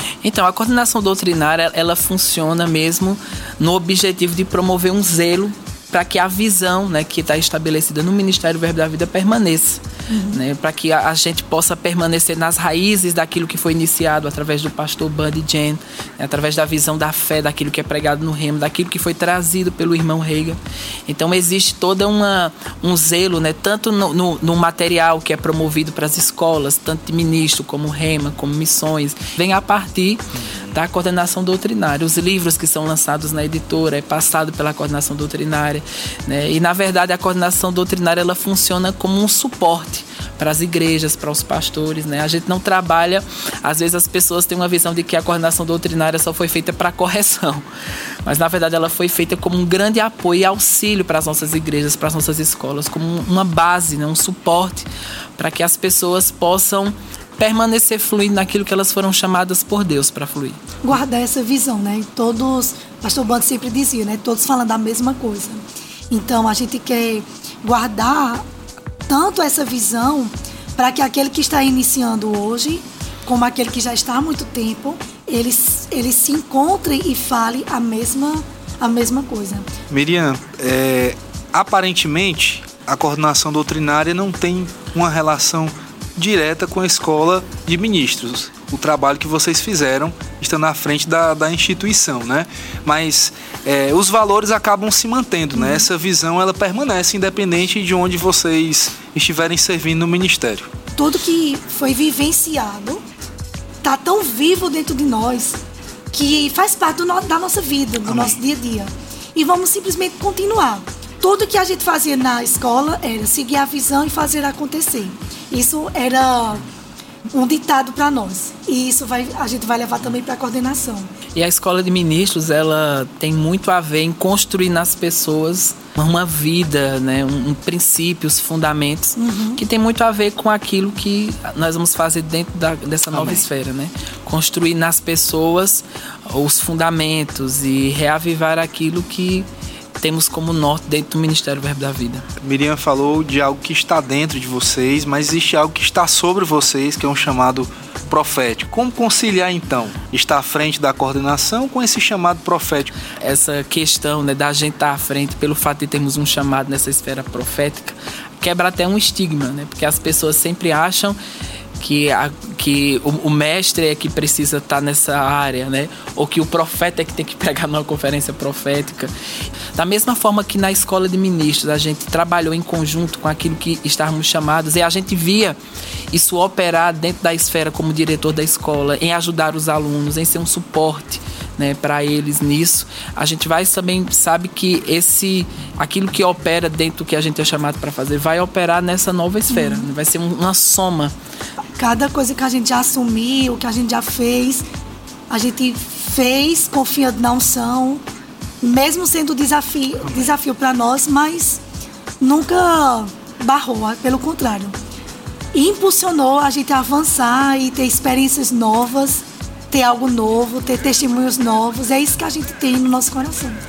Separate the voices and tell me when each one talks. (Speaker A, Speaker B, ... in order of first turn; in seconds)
Speaker A: 0.2-47.6, 48.2-60.6, 121.3-139.5, 140.0-142.2, 153.2-161.2, 161.8-169.1, 169.7-175.6, 176.1-191.1
Speaker B: 10.1-10.4, 60.8-68.4, 69.1-79.7, 95.5-95.8, 101.0-103.0, 103.8-116.7, 117.3-121.1, 129.2-129.6, 189.5-189.8, 191.8-194.6, 195.3-198.0, 198.6-201.6, 202.2-204.7, 205.5-213.6
Speaker C: 79.9-100.6, 108.0-108.4, 133.2-133.4, 142.4-152.9